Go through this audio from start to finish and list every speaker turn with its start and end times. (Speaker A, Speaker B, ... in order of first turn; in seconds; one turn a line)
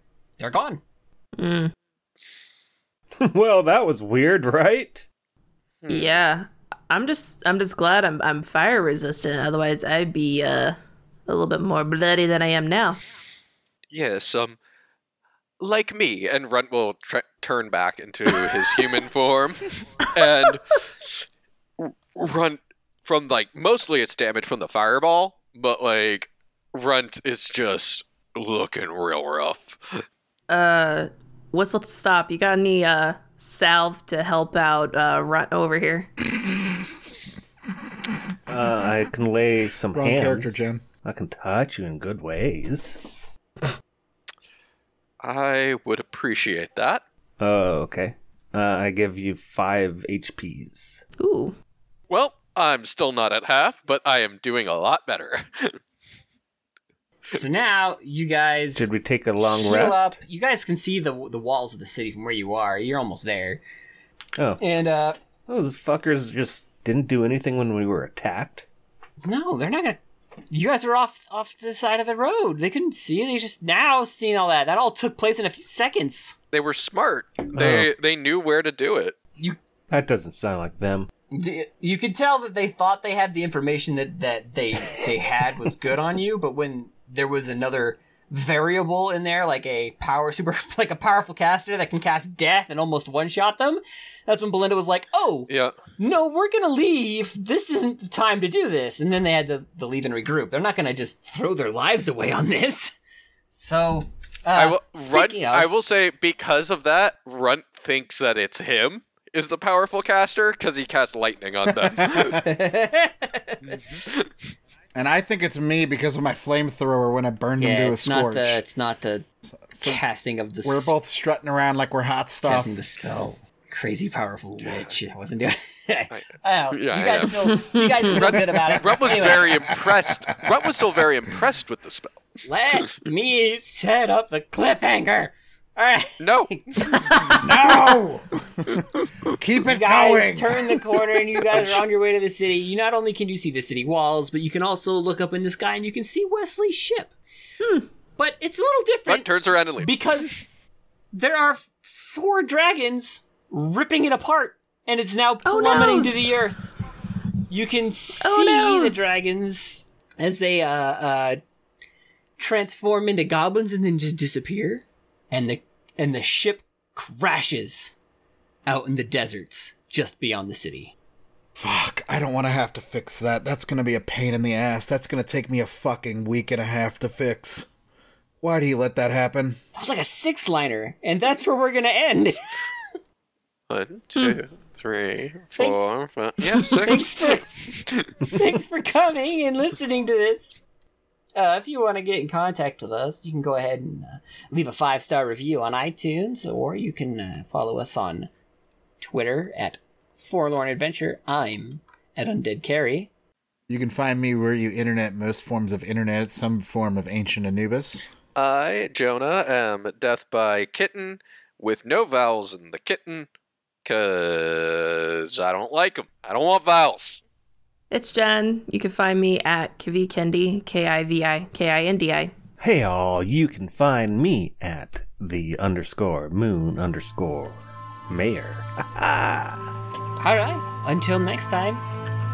Speaker A: 0.4-0.8
Speaker B: 1.4-1.7
Speaker C: 3.2-5.0
Speaker D: 5.8-6.2
Speaker B: 5.9-10.8
Speaker B: 11.3-13.0
Speaker D: 13.9-14.6
Speaker D: 15.6-21.1
Speaker B: 18.5-18.9
Speaker B: 20.0-20.3
Speaker D: 21.8-30.0
Speaker B: 30.5-36.1
Speaker C: 38.5-43.0
Speaker E: 39.9-40.8
Speaker D: 45.2-47.0
Speaker C: 47.4-51.0
Speaker B: 51.2-51.5
Speaker D: 52.1-55.8
Speaker A: 57.3-58.9
Speaker C: 58.8-60.2
Speaker A: 59.4-63.6
Speaker C: 64.4-64.6
Speaker A: 64.6-65.2
Speaker C: 65.5-68.7
Speaker A: 69.2-70.0
Speaker A: 70.5-76.3
Speaker D: 76.5-79.2
Speaker C: 77.5-77.9
Speaker C: 79.9-81.1
Speaker A: 81.3-102.9
Speaker D: 95.5-95.9
Speaker A: 103.5-105.7
Speaker D: 104.5-112.5
Speaker E: 111.7-112.4
Speaker A: 112.4-113.8
Speaker D: 113.7-114.3
Speaker E: 115.0-118.6
Speaker A: 117.6-119.2
Speaker E: 119.5-120.0
Speaker A: 119.8-120.9
Speaker E: 120.6-122.7
Speaker A: 122.4-129.8
Speaker D: 126.1-132.9
Speaker B: 127.5-128.2
Speaker E: 129.4-129.8
Speaker A: 132.4-137.4
Speaker D: 136.2-137.0
Speaker B: 136.9-137.4
Speaker E: 137.3-141.8
Speaker A: 139.6-147.1
Speaker B: 147.6-147.9
Speaker A: 148.2-150.5
Speaker D: 149.1-150.0
Speaker A: 151.1-156.6
Speaker B: 155.4-156.3
Speaker A: 157.5-161.4
Speaker B: 158.2-159.1
Speaker A: 162.4-167.9
Speaker A: 168.7-170.9
Speaker E: 171.6-177.7
Speaker E: 178.4-179.6
Speaker A: 179.8-182.9
Speaker D: 183.7-188.1
Speaker A: 185.6-185.9
Speaker A: 186.6-187.8
Speaker A: 188.3-190.6
Speaker A: 191.4-198.3
Speaker A: 199.0-203.1
Speaker E: 203.7-208.1
Speaker D: 208.4-213.3
Speaker D: 213.8-217.2
Speaker B: 217.9-222.3
Speaker C: 222.6-229.7
Speaker A: 230.2-231.8